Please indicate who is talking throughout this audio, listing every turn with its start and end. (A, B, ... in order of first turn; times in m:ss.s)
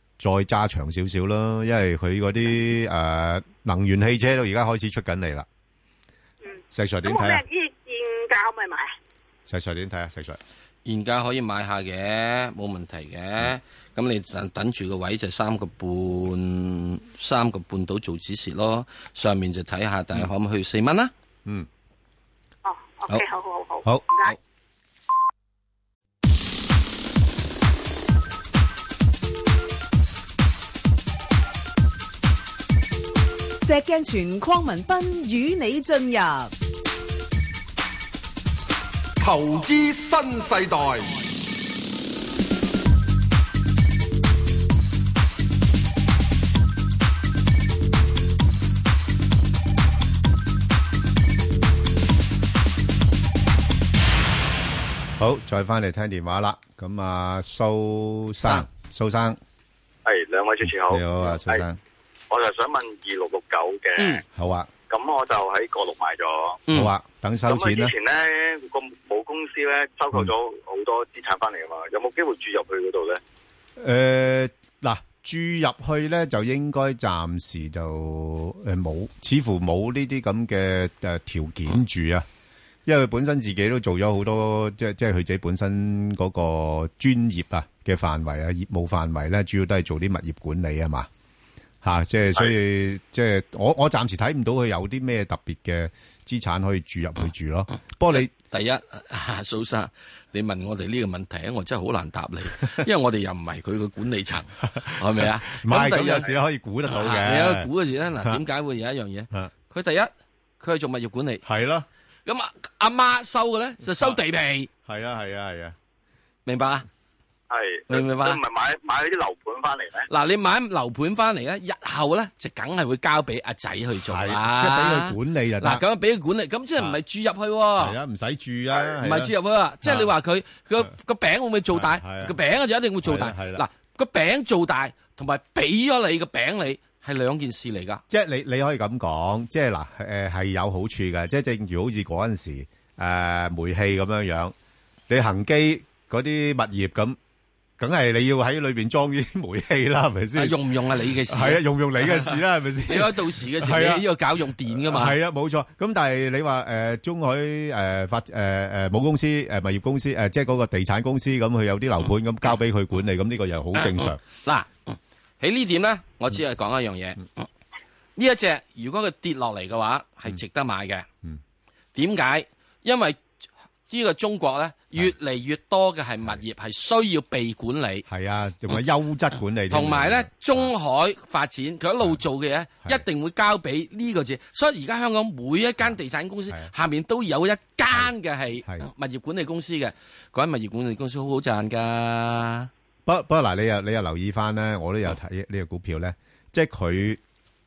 0:00.2-0:05.5 A
0:06.4-0:08.9 B
0:06.7-0:07.4 A
0:09.5-0:10.4 A
0:10.9-0:21.1 C
0:22.7-0:24.3 B
0:33.6-0:36.5 D
0:39.2-0:41.2 E
0:55.2-0:59.4 A
1:00.0-1:01.6 F
1:00.8-1:01.8 A
1:02.3-1:04.2 F
1:04.3-1:04.7 A
1:04.9-1:06.6 F
1:06.7-1:06.9 C
1:06.7-1:07.9 A
1:07.5-1:13.2 F
1:13.8-1:22.3 A
1:22.9-1:31.1 A
1:31.8-1:38.3 A
1:38.1-1:46.3 C
1:44.7-1:47.7 A
1:46.9-1:51.4 C
1:51.4-1:51.9 A
1:52.3-1:54.7 C
1:54.9-1:55.8 A
1:56.5-1:56.9 C
1:57.5-2:00.1 F
1:57.9-1:58.4 C
2:00.1-2:08.0 C
2:04.0-2:05.8 A
2:07.8-2:09.3 A
2:09.0-2:18.0 C
2:09.8-2:10.1 A
2:11.7-2:12.4 A
2:13.0-2:13.6 A
2:18.1-2:24.5 A
2:25.1-2:27.2 A
2:27.8-2:30.6 A
2:30.4-2:35.2 C
2:31.3-2:34.1 A
2:34.7-2:44.2 A
2:43.8-2:47.5 C
2:48.2-2:51.1 C
2:52.0-2:53.2 C
2:53.9-2:58.0 C
2:58.1-3:00.7 A
2:59.7-3:12.7 C
3:13.1-3:17.2 A